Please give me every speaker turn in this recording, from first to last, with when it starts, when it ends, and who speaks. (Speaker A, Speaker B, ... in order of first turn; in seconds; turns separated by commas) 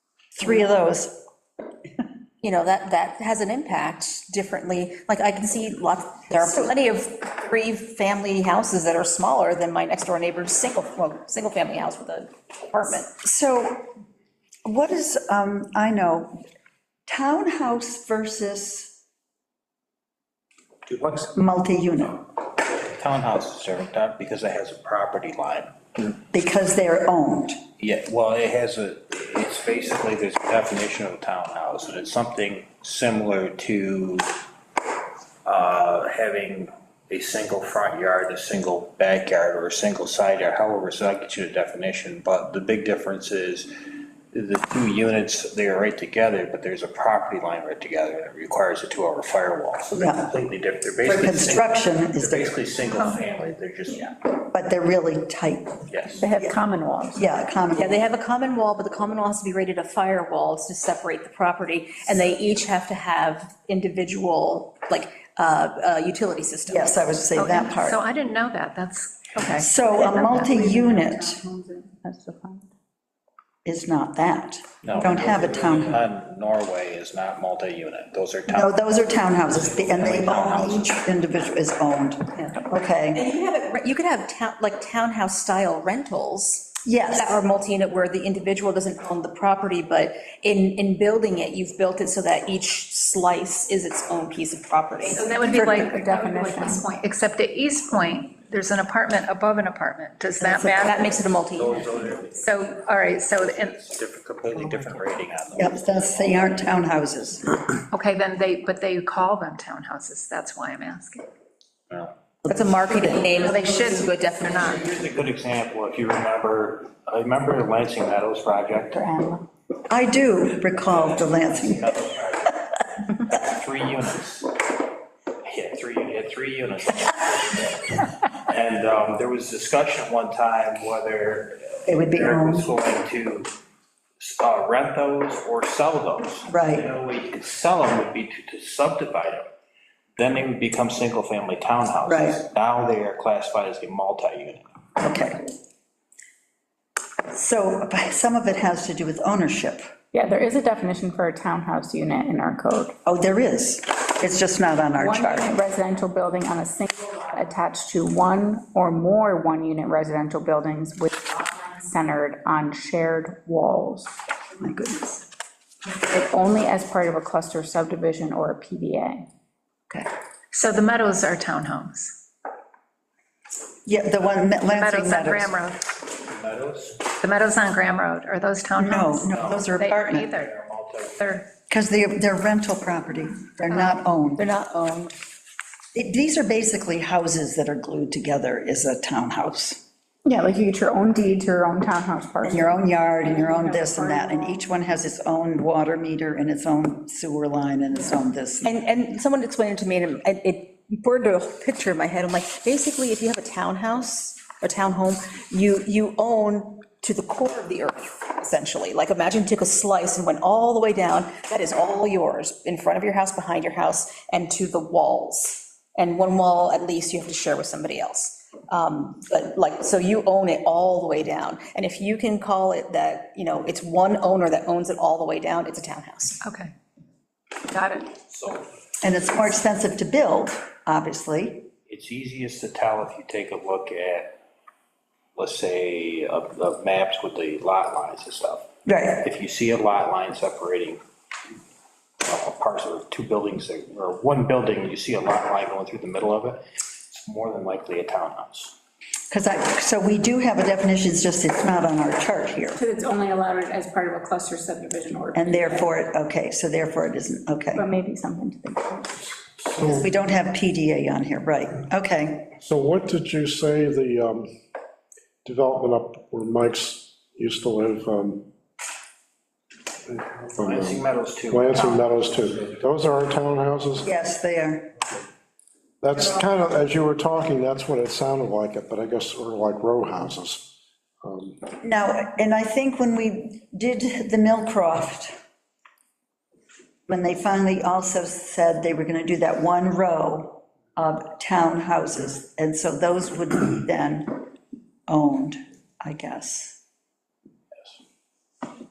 Speaker A: 0.3-1.1, Speaker B: 2.4-13.1, Speaker A: 6.4-6.7, Speaker A: 13.2-13.9, Speaker A: 14.6-16.4, Speaker A: 17.1-18.9, Speaker C: 20.9-21.3, Speaker A: 21.3-22.2, Speaker C: 22.8-26.1, Speaker A: 26.3-27.6, Speaker C: 27.8-34.3, Speaker C: 35.4-43.7, Speaker C: 44.3-54.1, Speaker A: 49.9-50.3, Speaker A: 51.0-52.6, Speaker A: 54.4-55.8, Speaker C: 55.9-56.2, Speaker D: 56.2-57.2, Speaker A: 57.1-58.0, Speaker B: 57.7-67.2, Speaker A: 66.7-68.0, Speaker E: 67.3-70.6, Speaker A: 69.6-71.4, Speaker D: 69.9-72.7, Speaker A: 73.6-76.0, Speaker C: 74.8-78.8, Speaker A: 78.5-83.2, Speaker C: 79.4-80.9, Speaker B: 83.1-95.3, Speaker A: 86.8-87.4, Speaker E: 95.1-101.0, Speaker D: 95.5-96.8, Speaker A: 95.5-95.9, Speaker B: 100.4-101.9, Speaker C: 101.5-106.8, Speaker E: 102.3-103.8, Speaker A: 105.5-107.5, Speaker E: 107.9-111.2, Speaker A: 112.4-113.1, Speaker B: 112.5-114.8, Speaker E: 113.3-114.0, Speaker C: 114.6-119.4, Speaker A: 119.9-121.9, Speaker C: 120.7-124.5, Speaker C: 125.4-133.5, Speaker A: 131.9-132.7, Speaker C: 134.2-139.5, Speaker A: 136.5-136.9, Speaker C: 140.2-144.6, Speaker A: 142.1-142.4, Speaker A: 145.0-145.4, Speaker A: 147.3-149.8, Speaker D: 150.1-152.9, Speaker A: 153.1-155.5, Speaker D: 155.0-164.1, Speaker A: 164.6-165.2, Speaker D: 165.9-169.3, Speaker E: 169.9-172.1, Speaker A: 173.8-175.5, Speaker E: 174.7-175.8, Speaker C: 176.1-177.1, Speaker E: 177.2-180.5, Speaker A: 178.8-180.3, Speaker C: 179.3-179.7, Speaker C: 180.3-181.3, Speaker E: 181.2-181.5, Speaker A: 181.7-184.5, Speaker E: 183.7-184.0, Speaker B: 184.4-185.1, Speaker A: 185.9-189.8, Speaker D: 190.2-194.7, Speaker A: 192.4-198.7, Speaker B: 198.6-226.4, Speaker E: 226.4-226.7, Speaker E: 227.7-228.1, Speaker C: 228.3-228.7, Speaker A: 229.0-231.7, Speaker C: 231.9-234.4, Speaker C: 235.3-238.7, Speaker A: 238.8-239.2, Speaker C: 239.2-241.0, Speaker C: 242.2-248.8, Speaker A: 249.3-252.8, Speaker D: 252.8-255.9, Speaker A: 255.3-257.8, Speaker D: 257.7-259.3, Speaker A: 259.8-262.5, Speaker F: 259.8-260.0, Speaker F: 262.6-264.5, Speaker F: 265.4-268.4, Speaker F: 270.0-274.1, Speaker C: 270.6-272.8, Speaker A: 274.0-274.9, Speaker F: 276.0-281.6, Speaker A: 276.1-276.4, Speaker A: 281.8-285.3, Speaker A: 287.1-294.4, Speaker A: 295.1-296.8